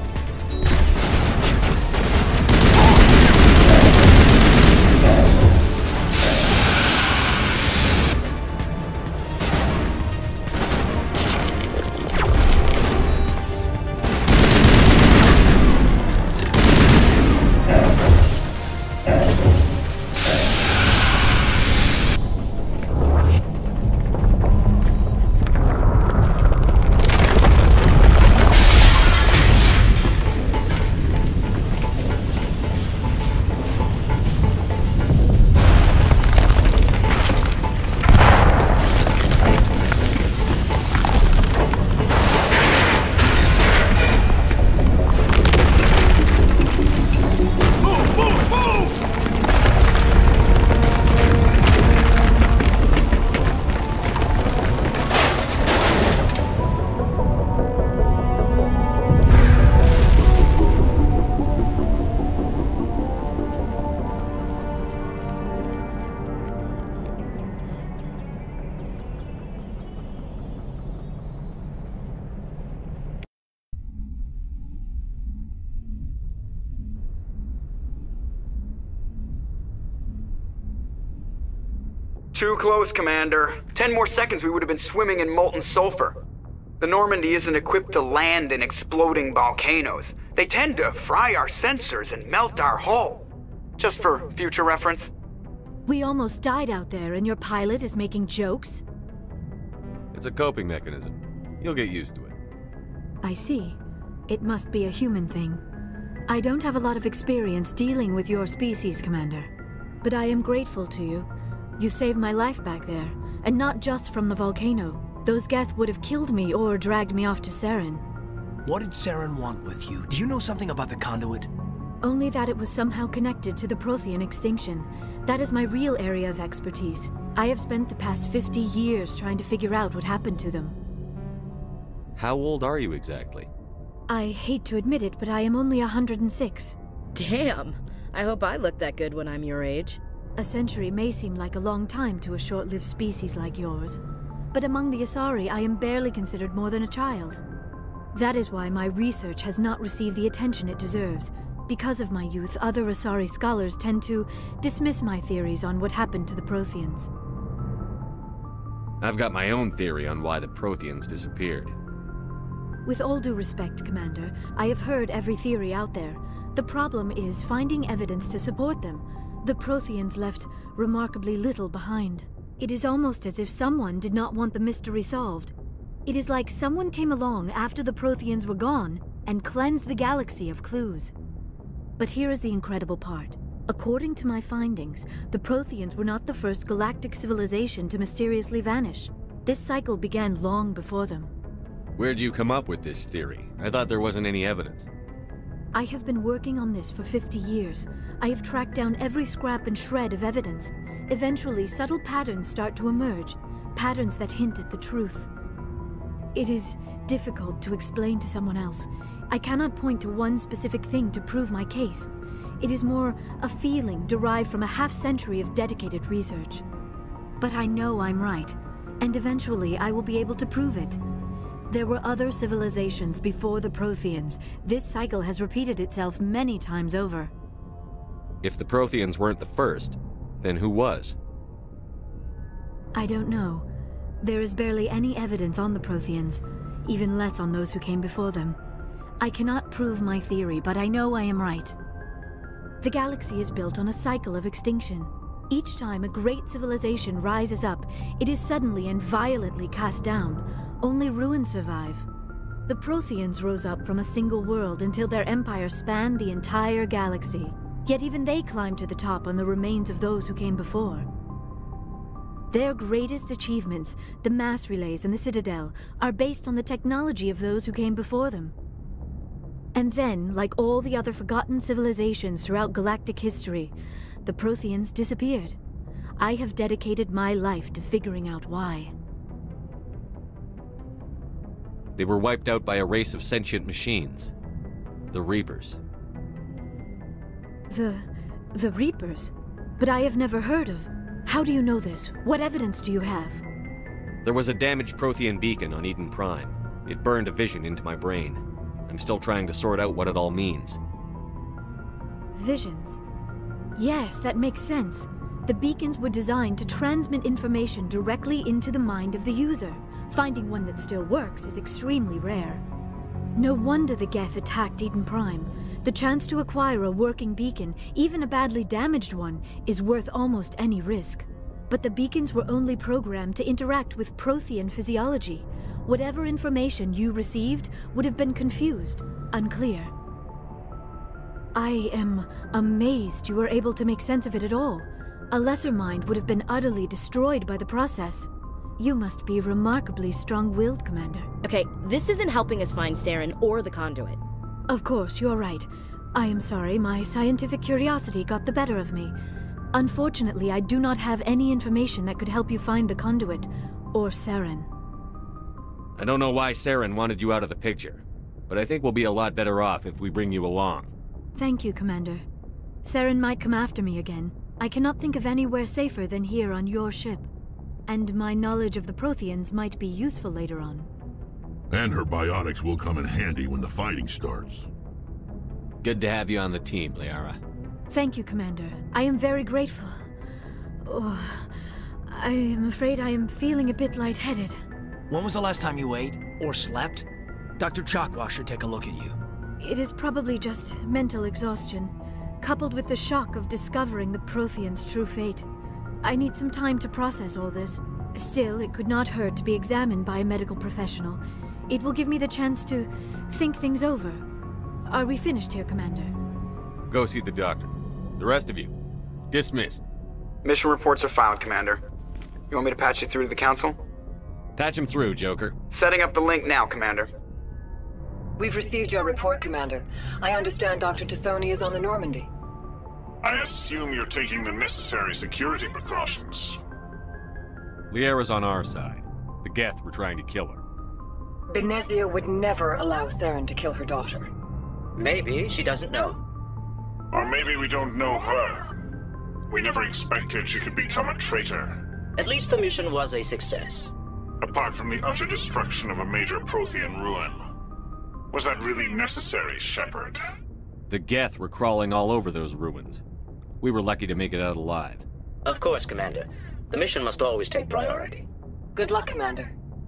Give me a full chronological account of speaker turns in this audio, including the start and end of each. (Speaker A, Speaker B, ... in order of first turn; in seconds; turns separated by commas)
Speaker A: 47.8-48.9, Speaker B: 82.3-86.2, Speaker B: 86.8-93.2, Speaker B: 93.8-95.1, Speaker C: 95.8-98.8, Speaker A: 100.1-102.3, Speaker C: 103.2-105.6, Speaker C: 106.3-109.5, Speaker C: 110.0-111.3, Speaker C: 111.8-118.0, Speaker D: 118.6-121.5, Speaker C: 122.0-130.8, Speaker A: 132.2-133.5, Speaker C: 134.1-136.8, Speaker E: 137.1-140.0, Speaker C: 140.4-144.0, Speaker C: 144.5-147.4, Speaker C: 148.1-157.1, Speaker A: 159.0-161.8, Speaker C: 162.8-175.5, Speaker C: 176.1-181.1, Speaker C: 182.0-191.3, Speaker A: 191.9-194.9, Speaker C: 195.7-205.3, Speaker C: 206.3-216.6, Speaker C: 217.4-221.0, Speaker C: 221.7-227.3, Speaker A: 228.4-231.1, Speaker C: 232.9-233.7, Speaker C: 234.2-238.6, Speaker C: 239.2-241.8, Speaker C: 242.8-252.1, Speaker C: 252.7-261.1, Speaker C: 262.5-268.5, Speaker C: 269.7-273.7, Speaker C: 274.2-275.6, Speaker C: 276.2-278.9, Speaker A: 282.0-284.3, Speaker A: 285.1-285.8, Speaker C: 287.7-293.4, Speaker A: 294.2-300.8, Speaker C: 302.3-303.0, Speaker C: 303.8-312.6, Speaker C: 313.4-329.9, Speaker C: 331.5-341.3, Speaker E: 341.4-344.2, Speaker C: 344.7-349.1, Speaker C: 349.7-354.7, Speaker A: 356.0-360.9, Speaker C: 361.4-362.2, Speaker C: 362.8-367.3, Speaker C: 367.9-370.9, Speaker F: 371.7-374.7, Speaker A: 375.8-377.4, Speaker C: 377.9-380.0, Speaker C: 380.8-381.5, Speaker C: 382.1-384.6, Speaker D: 385.1-387.1, Speaker D: 387.6-389.2, Speaker C: 389.6-395.5, Speaker C: 396.0-404.2, Speaker C: 404.9-406.1, Speaker A: 406.9-408.7, Speaker A: 409.3-409.8, Speaker B: 410.4-411.8, Speaker B: 412.5-413.8, Speaker A: 414.6-415.5, Speaker B: 415.7-417.1, Speaker G: 418.4-422.3, Speaker H: 423.2-426.6, Speaker A: 427.9-430.6, Speaker G: 431.5-434.3, Speaker I: 435.0-436.2, Speaker H: 437.1-438.7, Speaker H: 439.5-441.8, Speaker I: 442.2-443.9, Speaker H: 444.4-447.4, Speaker H: 448.3-450.2, Speaker A: 450.9-453.0, Speaker A: 453.6-455.0, Speaker I: 455.4-458.2, Speaker G: 458.7-459.5